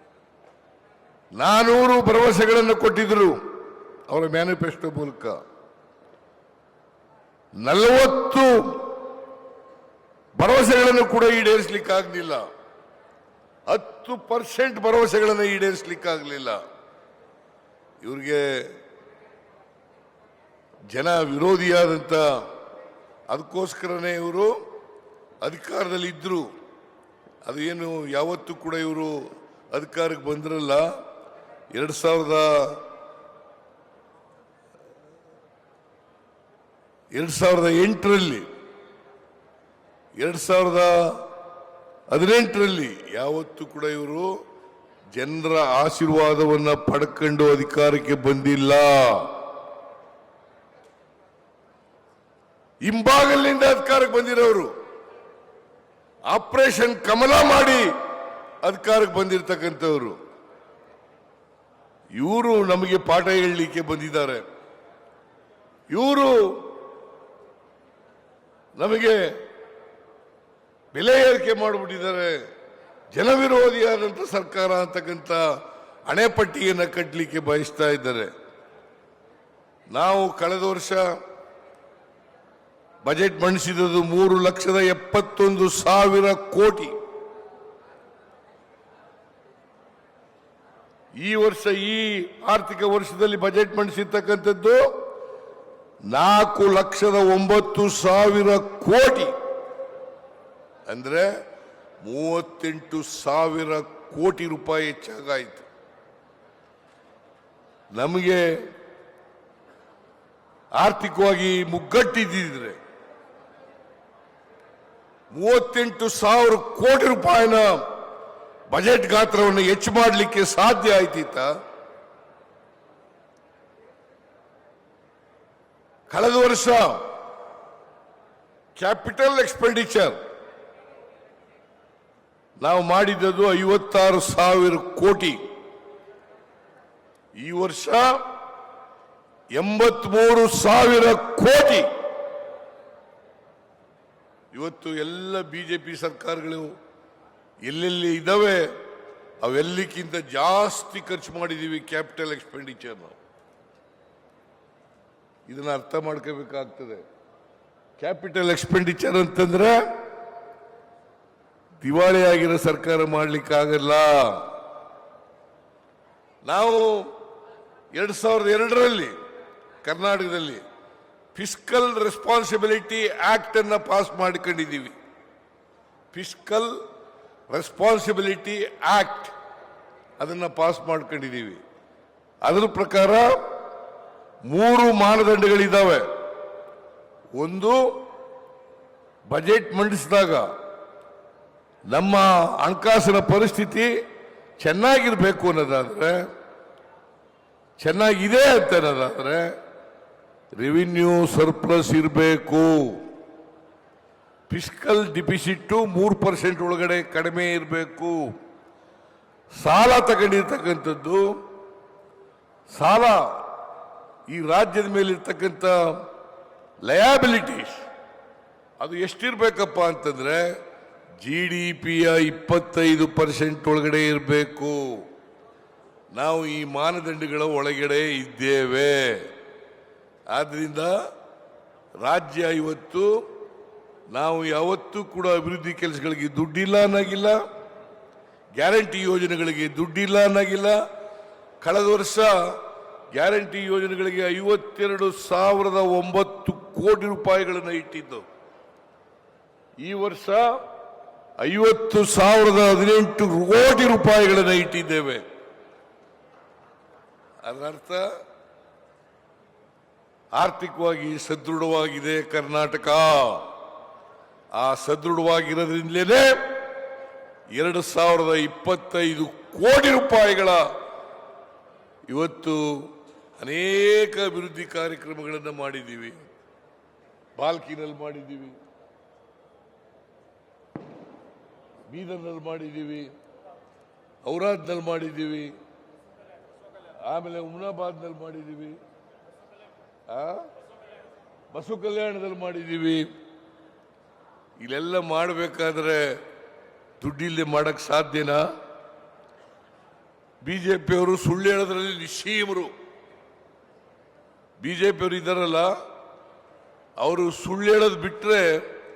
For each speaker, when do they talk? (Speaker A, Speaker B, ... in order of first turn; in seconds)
Speaker A: 1.4-3.4, 4.1-5.4, 7.6-8.9, 10.4-12.5, 13.7-16.6, 18.0-18.7, 20.9-22.4, 23.3-24.6, 25.4-26.5, 27.4-30.9, 31.7-32.8, 37.1-38.5, 40.2-41.2, 42.1-44.3, 45.1-49.3, 52.8-54.7, 56.3-57.9, 58.6-60.2, 62.2-64.4, 65.9-66.6, 68.8-69.4, 70.9-72.4, 73.1-75.4, 76.0-78.3, 79.9-81.2, 83.0-87.0, 91.2-95.0, 96.1-99.3, 100.9-101.3, 102.0-105.7, 107.9-108.5, 110.7-112.8, 115.3-117.9, 118.7-121.5, 126.1-127.0, 128.8-130.2, 132.6-135.4, 137.4-138.2, 139.5-141.9, 144.5-146.7, 147.6-148.7, 149.4-153.2, 155.5-157.0, 158.0-159.9, 161.8-164.5, 166.4-167.1, 167.9-169.1, 169.8-170.6, 171.3-174.9, 176.1-176.8, 177.5-179.3, 180.2-181.6, 182.4-183.4, 184.5-186.1, 187.3-187.9, 189.3-190.5, 191.9-193.9, 194.6-196.3, 197.8-199.5, 200.6-203.0, 204.5-208.3, 209.5-211.4, 212.7-213.4, 214.3-216.0, 216.8-217.8, 218.8-220.6, 221.2-225.0, 226.1-229.3, 230.3-230.9, 232.0-233.2, 234.1-237.4, 238.6-240.8, 241.6-242.6, 243.1-248.2, 249.8-250.6, 251.4-255.2, 257.4-258.1, 260.3-263.5, 264.5-266.6, 267.5-270.7, 272.1-276.3, 277.4-278.6, 281.9-283.1, 284.2-285.5, 287.0-288.8, 290.1-290.5, 291.5-293.1, 294.6-296.2, 297.0-298.5, 300.4-302.7, 304.6-305.7, 307.0-308.6